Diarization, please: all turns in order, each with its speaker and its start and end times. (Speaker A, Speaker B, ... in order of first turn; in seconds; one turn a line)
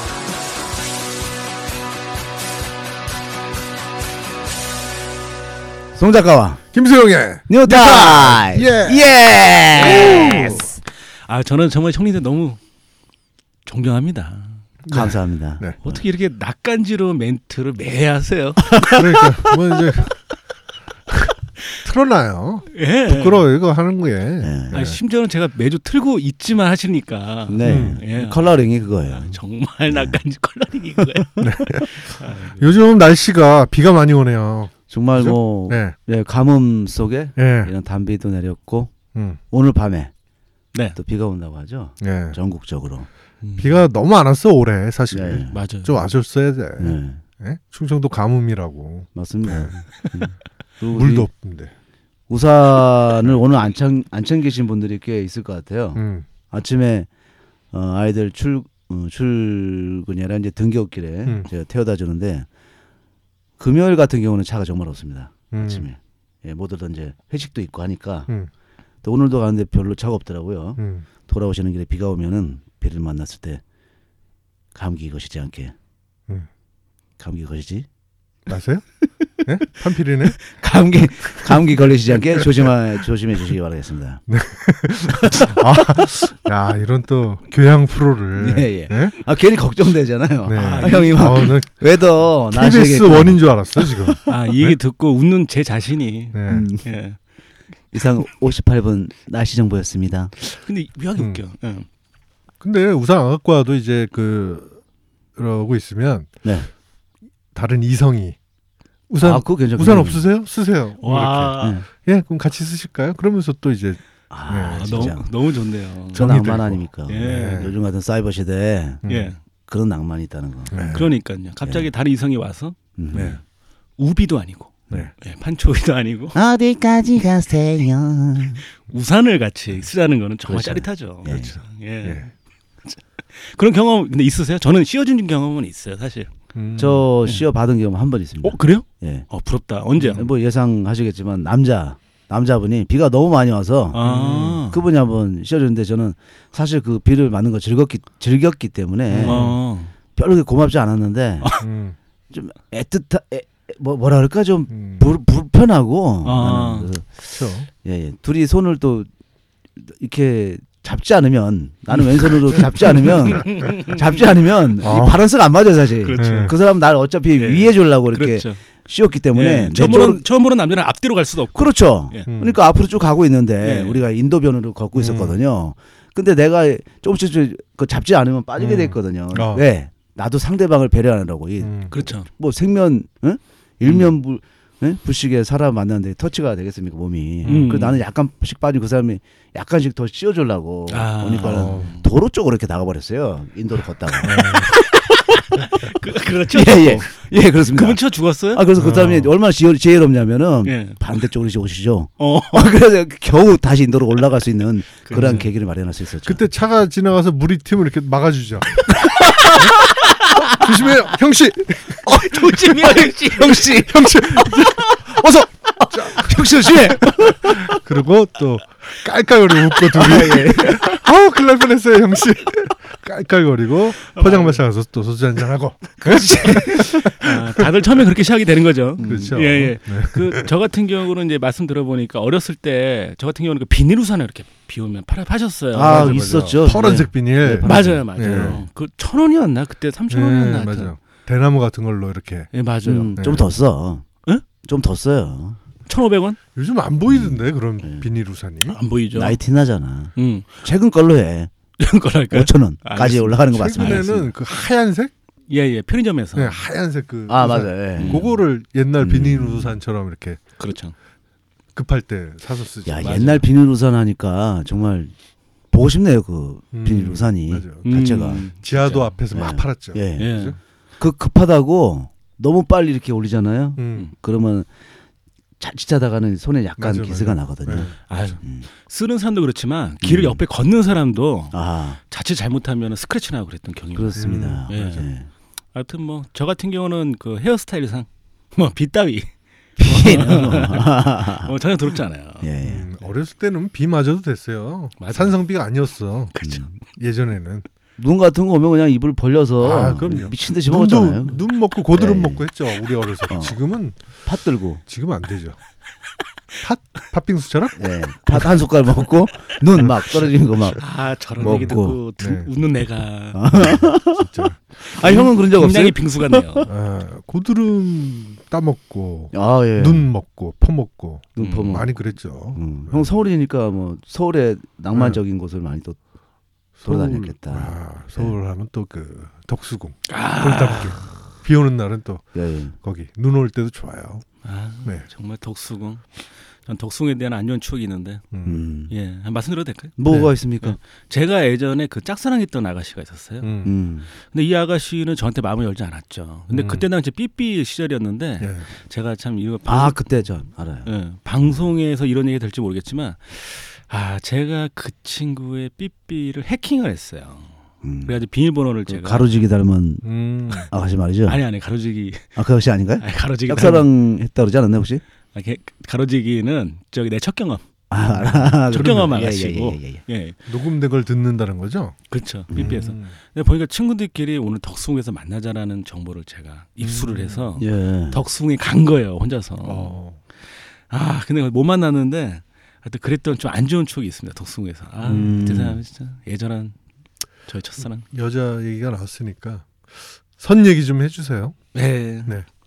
Speaker A: 5.9-6.6
Speaker B: 6.7-9.1
Speaker A: 7.5-10.7
Speaker C: 9.8-12.6
Speaker B: 9.8-10.7
Speaker C: 13.7-14.6
Speaker B: 14.8-15.8
Speaker A: 14.9-16.0
Speaker C: 15.8-20.1
Speaker B: 18.8-20.2
Speaker B: 21.8-25.0
Speaker C: 22.7-23.4
Speaker A: 24.4-24.7
Speaker C: 24.7-28.5
Speaker A: 27.5-29.4
Speaker B: 27.6-28.0
Speaker C: 29.0-32.7
Speaker A: 29.9-30.2
Speaker B: 31.4-35.9
Speaker A: 34.9-38.9
Speaker B: 37.4-37.7
Speaker B: 39.1-39.4
Speaker A: 39.5-40.1
Speaker C: 40.7-41.0
Speaker A: 41.0-43.1
Speaker B: 42.0-42.4
Speaker C: 43.4-43.8
Speaker B: 43.6-49.7
Speaker A: 45.1-45.6
Speaker C: 45.5-46.0
Speaker A: 46.8-47.2
Speaker A: 49.1-51.3
Speaker B: 50.9-51.7
Speaker A: 52.3-57.1
Speaker B: 55.9-56.3
Speaker A: 57.7-62.5
Speaker A: 63.6-68.3
Speaker B: 65.5-65.9
Speaker A: 69.0-73.6
Speaker B: 70.8-71.0
Speaker A: 74.7-75.7
Speaker A: 77.2-77.9
Speaker B: 78.5-78.8
Speaker B: 79.4-80.4
Speaker A: 80.4-84.2
Speaker B: 82.4-82.7
Speaker B: 84.3-89.2
Speaker A: 88.3-94.3
Speaker B: 90.4-91.7
Speaker C: 90.5-91.5
Speaker B: 92.5-94.8
Speaker C: 94.3-97.2
Speaker B: 96.3-96.7
Speaker A: 96.5-96.9
Speaker A: 97.9-100.3
Speaker C: 100.4-101.9
Speaker B: 102.6-104.8
Speaker B: 105.4-106.3
Speaker A: 106.4-106.7
Speaker B: 107.5-108.4
Speaker B: 109.1-115.2
Speaker A: 109.2-110.2
Speaker C: 111.0-111.8
Speaker A: 111.6-111.8
Speaker A: 114.3-115.3
Speaker C: 114.7-116.3
Speaker B: 116.1-117.7
Speaker A: 116.1-119.0
Speaker C: 117.1-117.7
Speaker B: 119.0-119.3
Speaker C: 119.0-119.4
Speaker A: 119.7-120.8
Speaker B: 120.7-121.1
Speaker C: 120.9-122.8
Speaker A: 121.6-121.9
Speaker A: 123.0-123.4
Speaker B: 123.1-123.4
Speaker C: 124.0-126.3
Speaker A: 126.3-128.6
Speaker C: 128.9-132.2
Speaker A: 130.4-131.6
Speaker B: 131.3-132.3
Speaker C: 132.8-136.3
Speaker B: 136.5-137.1
Speaker A: 136.8-139.3
Speaker C: 138.4-140.3
Speaker A: 140.1-144.0
Speaker C: 143.9-144.8
Speaker B: 144.0-144.7
Speaker A: 144.7-149.5
Speaker B: 149.1-149.6
Speaker C: 149.2-149.9
Speaker A: 150.1-151.5
Speaker B: 151.6-152.0
Speaker A: 152.3-157.2
Speaker B: 154.7-155.1
Speaker C: 156.2-156.9
Speaker B: 157.2-157.7
Speaker A: 157.8-159.1
Speaker A: 159.8-170.2
Speaker C: 163.3-164.1
Speaker B: 164.8-165.2
Speaker C: 166.0-166.5
Speaker B: 166.2-166.5
Speaker C: 167.3-168.6
Speaker C: 169.3-172.3
Speaker A: 171.5-194.7
Speaker B: 172.3-172.6
Speaker C: 173.6-174.0
Speaker B: 174.9-175.4
Speaker B: 178.6-179.6
Speaker B: 181.6-181.9
Speaker C: 181.9-182.3
Speaker B: 187.4-187.7
Speaker C: 187.4-188.0
Speaker C: 190.9-192.0
Speaker B: 191.4-191.9
Speaker C: 194.2-197.1
Speaker B: 194.2-194.7
Speaker A: 196.5-206.4
Speaker C: 197.7-198.6
Speaker B: 198.8-199.3
Speaker C: 200.6-201.0
Speaker C: 202.2-202.7
Speaker C: 205.0-205.5
Speaker B: 205.1-205.5
Speaker B: 206.2-209.0
Speaker A: 209.0-210.6
Speaker C: 209.5-210.6
Speaker B: 210.6-213.0
Speaker C: 212.1-213.7
Speaker A: 212.1-215.2
Speaker B: 213.6-228.0
Speaker A: 215.8-217.8
Speaker A: 219.9-220.9
Speaker C: 224.1-224.6
Speaker C: 226.1-236.5
Speaker A: 229.0-229.4
Speaker B: 229.0-230.5
Speaker A: 235.7-238.6
Speaker B: 235.8-238.6
Speaker C: 237.6-240.9
Speaker B: 240.1-242.5
Speaker C: 242.5-243.2
Speaker A: 242.8-244.1
Speaker B: 243.2-243.5
Speaker A: 244.6-245.6
Speaker C: 245.9-246.4
Speaker B: 246.5-248.8
Speaker A: 247.1-248.0
Speaker C: 248.7-249.4
Speaker A: 249.1-251.5
Speaker C: 250.2-250.6
Speaker C: 251.8-254.1
Speaker A: 252.3-254.3
Speaker B: 253.5-255.1
Speaker C: 255.5-256.6
Speaker B: 256.4-260.5
Speaker A: 257.3-258.2
Speaker C: 258.0-258.3
Speaker A: 259.0-259.8
Speaker C: 260.6-260.9
Speaker B: 261.7-263.4
Speaker A: 262.9-265.1
Speaker C: 263.0-263.4
Speaker A: 265.7-268.4
Speaker B: 266.7-268.0
Speaker C: 267.8-269.2
Speaker B: 268.6-270.6
Speaker A: 269.3-270.3
Speaker C: 270.2-270.6
Speaker A: 271.0-274.7
Speaker B: 273.8-274.1
Speaker A: 275.6-278.7
Speaker B: 276.8-278.0
Speaker C: 278.1-285.1
Speaker A: 280.0-280.4
Speaker A: 281.5-282.0
Speaker A: 283.9-285.3
Speaker B: 284.2-284.6
Speaker C: 285.7-289.3
Speaker A: 289.8-291.5
Speaker C: 289.8-292.5
Speaker A: 292.4-292.9
Speaker B: 292.6-296.4
Speaker C: 295.0-295.4
Speaker C: 296.3-296.6
Speaker A: 296.4-296.7
Speaker B: 297.0-297.6
Speaker A: 298.0-302.4
Speaker B: 299.6-304.0
Speaker A: 303.3-303.5
Speaker A: 304.2-304.8
Speaker B: 304.9-305.6
Speaker B: 306.6-307.8
Speaker A: 307.8-310.8
Speaker B: 309.8-310.8
Speaker C: 310.8-313.8
Speaker B: 311.4-312.5
Speaker A: 311.4-312.0
Speaker A: 313.3-314.3
Speaker B: 313.6-314.6
Speaker A: 314.8-316.6
Speaker C: 314.9-316.7
Speaker B: 316.7-323.1
Speaker A: 319.3-320.1
Speaker A: 321.4-321.9
Speaker C: 321.4-321.8
Speaker A: 322.5-326.0
Speaker B: 324.9-325.2
Speaker B: 326.8-334.2
Speaker A: 326.8-328.3
Speaker C: 330.1-331.1
Speaker A: 332.3-332.7
Speaker C: 334.4-338.3
Speaker B: 338.3-338.6
Speaker A: 338.4-338.9
Speaker C: 338.9-340.0
Speaker A: 340.0-340.8
Speaker C: 340.6-343.6
Speaker B: 343.4-343.7
Speaker A: 343.6-344.1
Speaker C: 344.1-350.0
Speaker B: 346.5-346.9
Speaker B: 348.4-348.7
Speaker A: 349.6-350.9
Speaker C: 350.9-357.5
Speaker A: 357.8-358.1
Speaker C: 358.0-359.3
Speaker A: 358.9-360.0
Speaker B: 360.0-360.7
Speaker A: 360.7-361.4
Speaker C: 361.2-362.4
Speaker A: 362.4-365.0
Speaker C: 363.0-363.9
Speaker C: 365.3-370.4
Speaker A: 367.9-370.0
Speaker B: 368.7-369.1
Speaker B: 370.5-371.9
Speaker C: 372.1-379.9
Speaker A: 372.5-372.9
Speaker B: 372.5-373.1
Speaker B: 376.8-377.5
Speaker A: 377.6-378.2
Speaker B: 379.6-380.2
Speaker C: 380.9-386.8
Speaker A: 385.0-385.8
Speaker C: 387.5-388.1
Speaker B: 388.1-391.6
Speaker C: 391.7-392.4